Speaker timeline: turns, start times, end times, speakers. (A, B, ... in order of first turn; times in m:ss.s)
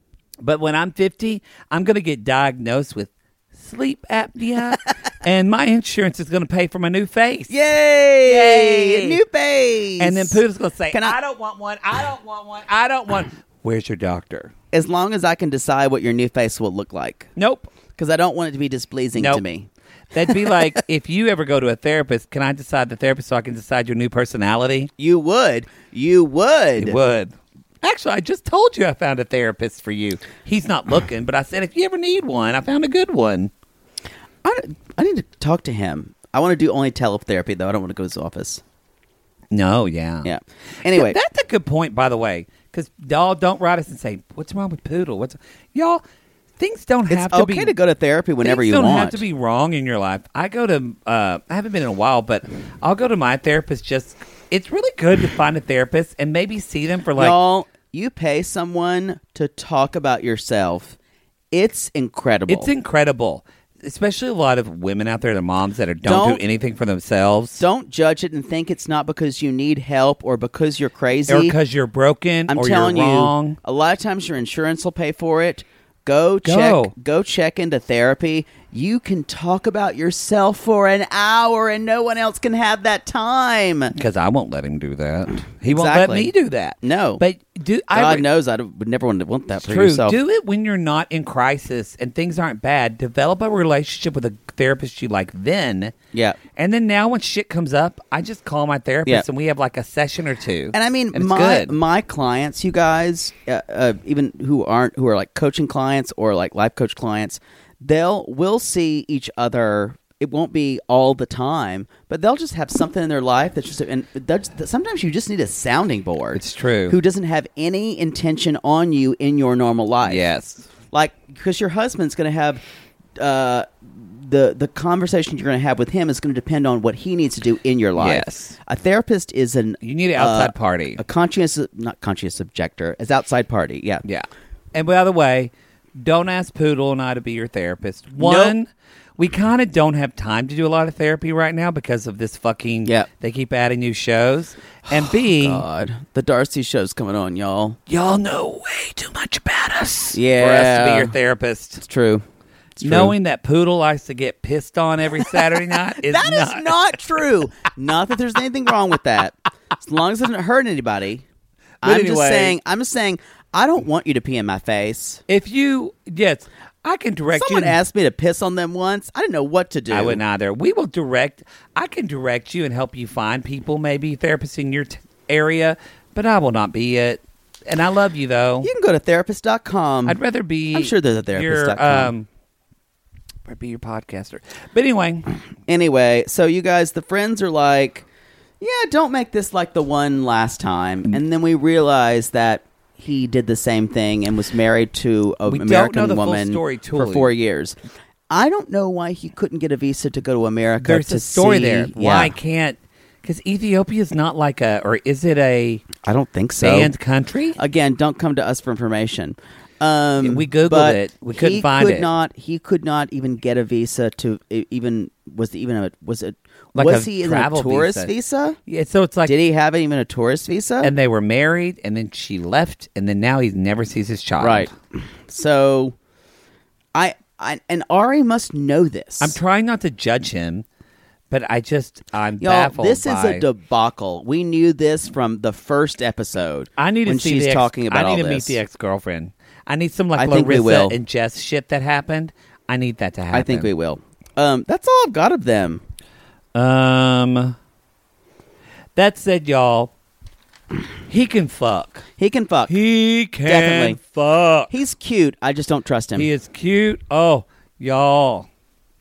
0:00.4-0:07.5 A
0:07.5-0:10.4 B
0:08.2-0:09.2 A
0:10.0-0:14.5 A
0:14.7-0:17.3 B
0:17.4-0:17.7 A
0:18.0-0:19.7 B
0:19.2-0:19.4 A
0:20.1-0:24.9 A
0:25.0-0:27.0 B
0:26.8-0:33.5 A
0:34.4-0:38.6 B
0:39.5-0:40.3 A
0:40.2-0:41.2 B
0:40.9-0:46.0 A
0:46.6-0:47.7 A
0:47.1-0:49.2 B
0:48.4-0:57.4 A
0:57.2-1:01.0 B
1:01.5-1:02.7 B
1:02.5-1:07.6 A
1:06.0-1:06.4 B
1:07.6-1:11.6 B
1:11.3-1:13.6 A
1:12.5-1:23.9 B
1:16.4-1:16.9 A
1:23.9-1:28.3 A
1:25.6-1:26.3 B
1:26.8-1:27.2 B
1:27.9-1:30.2 B
1:29.6-1:36.0 A
1:36.1-1:36.4 B
1:36.6-1:41.8 A
1:40.7-2:00.3 B
1:56.4-1:57.0 A
2:00.0-2:00.7 A
2:00.9-2:02.6 B
2:03.2-2:14.0 B
2:08.0-2:08.6 A
2:09.8-2:11.0 A
2:14.0-2:25.6 A
2:18.2-2:18.6 B
2:25.2-2:27.8 B
2:27.9-2:31.8 A
2:30.1-2:31.2 B
2:31.8-2:32.2 B
2:32.8-2:33.2 B
2:32.8-2:37.0 A
2:36.0-2:41.2 B
2:41.8-2:42.6 A
2:41.8-2:45.2 B
2:45.3-2:47.8 A
2:47.3-2:50.2 B
2:49.9-2:58.7 A
2:58.6-3:00.2 B
3:00.1-3:02.3 A
3:00.7-3:02.1 B
3:03.4-3:05.3 A
3:05.7-3:08.0 B
3:08.6-3:17.8 B
3:15.5-3:17.3 A
3:18.3-3:22.3 B
3:20.8-3:25.9 A
3:26.0-3:26.9 B
3:26.6-3:27.6 A
3:27.6-3:38.6 B
3:30.2-3:32.1 A
3:36.8-3:38.1 A
3:38.7-3:39.4 A
3:39.2-3:40.9 B
3:40.8-3:44.7 A
3:44.4-3:46.0 B
3:47.0-3:49.4 B
3:49.2-3:50.6 A
3:51.3-3:53.5 A
3:52.4-3:58.6 B
3:56.8-4:03.7 A
4:00.2-4:01.0 B
4:03.3-4:05.8 B
4:06.6-4:07.6 A
4:09.0-4:09.9 A
4:11.1-4:12.0 A
4:12.2-4:12.7 B
4:12.7-4:14.7 A
4:13.4-4:14.0 B
4:14.7-4:16.3 B
4:16.2-4:18.5 A